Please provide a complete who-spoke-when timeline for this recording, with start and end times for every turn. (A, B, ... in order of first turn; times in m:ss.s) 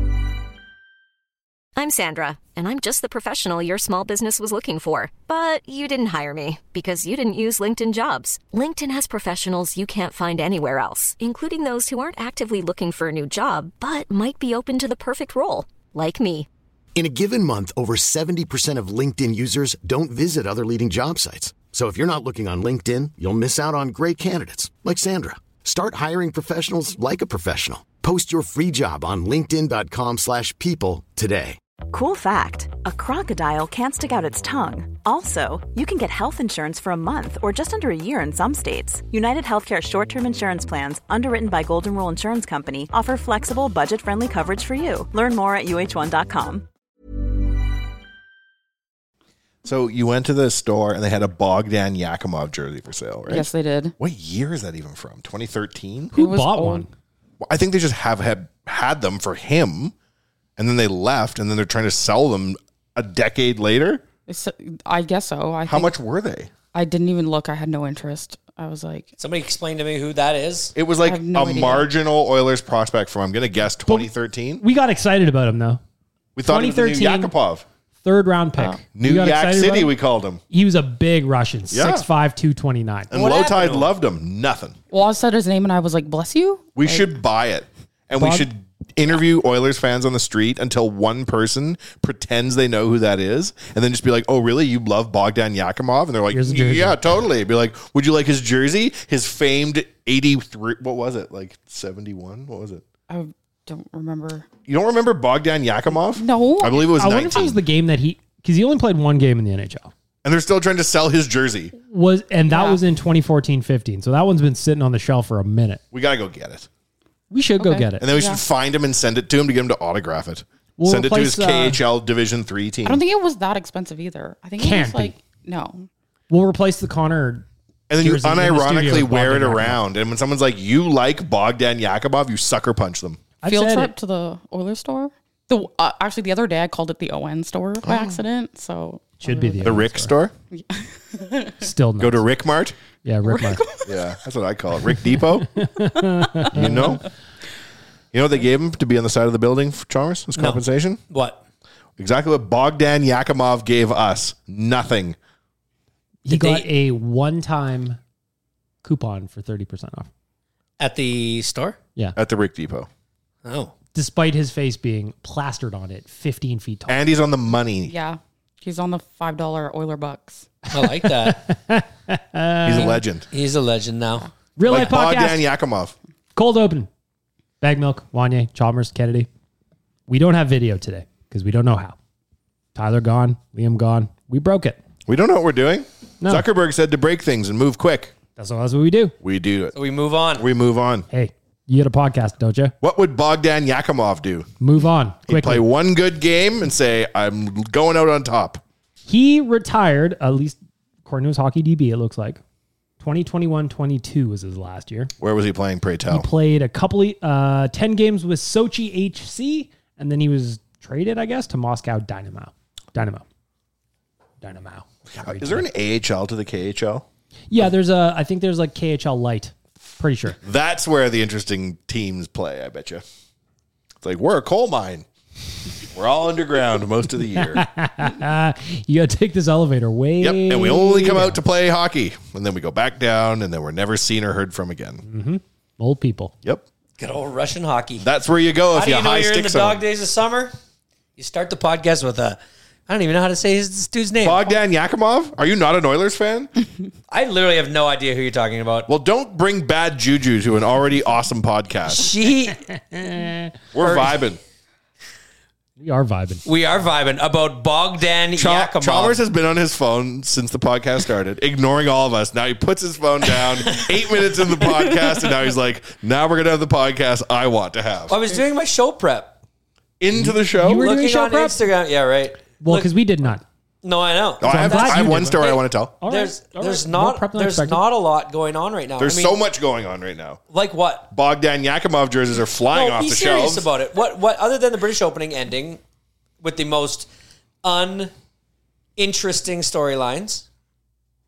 0:01.8-0:16.5 A
0:17.0-0:31.6 B
0:31.9-0:46.7 C
0:49.6-0:56.2 D
0:53.3-0:54.0 E
0:56.1-0:56.9 F
0:56.2-0:56.9 E
0:57.4-0:59.9 D
1:00.6-1:04.0 D
1:04.3-1:05.9 E
1:05.7-1:06.5 D
1:06.7-1:09.1 E
1:09.2-1:10.7 G
1:10.8-1:14.6 D
1:11.0-1:11.9 E
1:14.6-1:15.8 F
1:16.4-1:17.6 D
1:16.4-1:17.3 F
1:18.0-1:20.0 F
1:19.0-1:20.4 D
1:20.5-1:23.1 F
1:21.7-1:22.1 D
1:23.1-1:24.8 D
1:23.1-1:23.9 G
1:24.9-1:27.1 E
1:26.8-1:42.8 D
1:28.2-1:28.5 F
1:36.3-1:37.1 F
1:43.1-1:44.5 E
1:44.7-1:47.6 D
1:46.1-1:46.9 E
1:47.0-1:49.9 F
1:50.2-1:51.7 D
1:51.9-1:55.8 F
1:52.5-1:52.8 E
1:55.9-1:56.7 D
1:57.3-1:58.0 F
1:57.6-1:58.4 E
1:58.0-2:03.0 D
2:00.8-2:01.8 F
2:02.8-2:05.9 E
2:04.6-2:05.2 F
2:06.3-2:07.5 F
2:07.9-2:13.2 D
2:08.0-2:09.8 F
2:13.4-2:13.9 F
2:13.5-2:19.8 E
2:17.8-2:18.2 D
2:19.2-2:20.2 F
2:19.6-2:20.3 D
2:20.5-2:21.6 E
2:21.6-2:22.2 F
2:22.0-2:22.8 D
2:23.0-2:23.6 F
2:23.3-2:24.0 E
2:23.9-2:25.5 D
2:25.6-2:27.0 F
2:26.5-2:27.0 D
2:28.1-2:31.0 D
2:30.4-2:31.4 G
2:32.0-2:35.2 D
2:36.2-2:38.0 F
2:36.3-2:36.7 G
2:38.8-2:40.1 F
2:40.8-2:41.8 G
2:42.2-2:42.9 D
2:43.4-2:43.7 G
2:43.9-2:47.0 F
2:46.9-2:47.9 D
2:47.9-2:50.5 E
2:50.7-2:51.4 G
2:51.0-2:53.0 F
2:52.6-2:53.3 D
2:53.3-2:54.3 G
2:54.6-2:55.4 F
2:54.6-2:56.0 D
2:56.4-2:56.9 F
2:57.6-2:59.3 F
3:00.1-3:02.0 F
3:02.8-3:04.8 F
3:05.1-3:08.1 D
3:06.2-3:06.5 F
3:08.4-3:09.2 F
3:09.2-3:09.8 D
3:09.8-3:10.5 G
3:10.4-3:11.1 D
3:11.1-3:12.7 F
3:12.8-3:14.5 D
3:14.6-3:15.7 F
3:15.3-3:18.6 D
3:19.1-3:22.4 F
3:23.0-3:25.1 F
3:25.2-3:26.3 D
3:26.1-3:33.2 F
3:34.4-3:35.7 F
3:35.2-3:37.0 D
3:37.5-3:40.4 F
3:40.4-3:43.0 D
3:44.0-3:45.1 D
3:45.9-3:47.6 D
3:47.4-3:51.4 F
3:50.2-3:55.0 D
3:55.0-3:56.3 F
3:57.0-3:58.1 G
3:58.0-3:59.8 D
3:58.7-4:00.6 G
4:01.2-4:04.6 G
4:04.2-4:06.5 D
4:07.1-4:08.9 G
4:08.9-4:12.1 D
4:11.9-4:12.6 G
4:12.7-4:13.5 F
4:13.7-4:14.4 D
4:13.8-4:14.2 G
4:15.8-4:16.4 F
4:16.4-4:19.2 G
4:18.4-4:28.2 D
4:23.4-4:24.1 G
4:28.1-4:29.4 G
4:30.0-4:30.9 D
4:30.1-4:31.6 F
4:30.7-4:32.9 G
4:32.6-4:33.4 F
4:33.8-4:39.4 G
4:34.4-4:35.9 D
4:34.4-4:35.5 F
4:36.0-4:37.8 F
4:39.0-4:40.4 D
4:40.5-4:41.1 G
4:41.1-4:43.7 D
4:42.7-4:45.8 G
4:46.4-4:47.1 G
4:47.6-4:48.1 G
4:49.0-4:50.4 G